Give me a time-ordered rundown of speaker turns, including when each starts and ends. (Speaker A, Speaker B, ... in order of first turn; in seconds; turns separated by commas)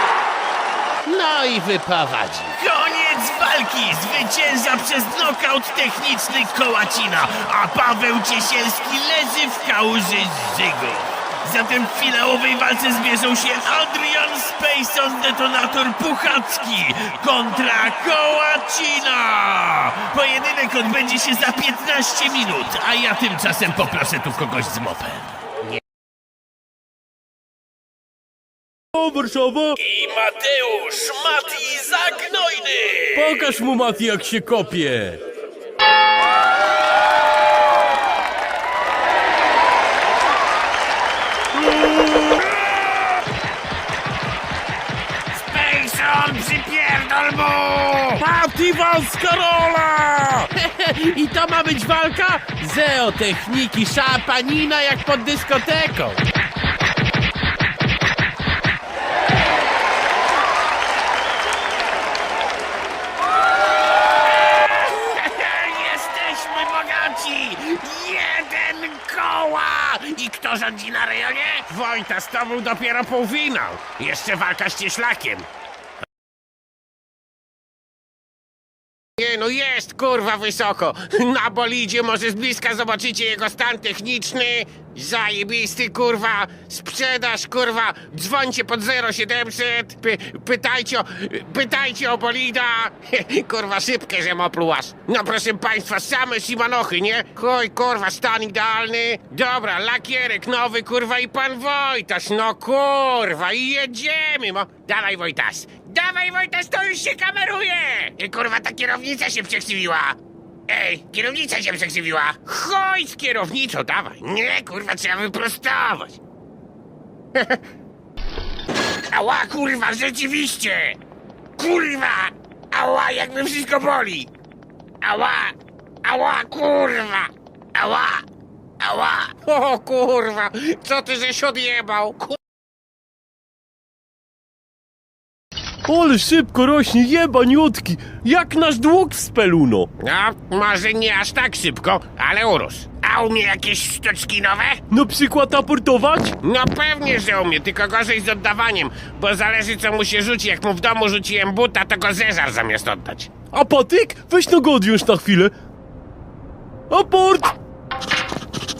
Speaker A: 1.0-2.8, Speaker B: 2.7-25.4, Speaker A: 4.4-10.9, Speaker A: 11.5-16.4, Speaker A: 17.1-19.4, Speaker A: 20.8-21.8, Speaker C: 28.9-29.8, Speaker B: 29.8-33.5, Speaker C: 33.1-35.2, Speaker A: 42.0-42.8, Speaker A: 45.3-56.2, Speaker B: 48.4-49.0, Speaker B: 51.0-53.6, Speaker A: 64.2-75.5, Speaker A: 79.2-116.2, Speaker A: 117.3-117.6, Speaker A: 119.1-121.0, Speaker A: 121.6-124.3, Speaker A: 125.0-128.2, Speaker A: 128.8-132.4, Speaker C: 135.9-139.9, Speaker A: 140.0-144.8, Speaker C: 144.9-146.4, Speaker A: 146.4-153.3, Speaker C: 153.5-155.5, Speaker C: 156.9-157.6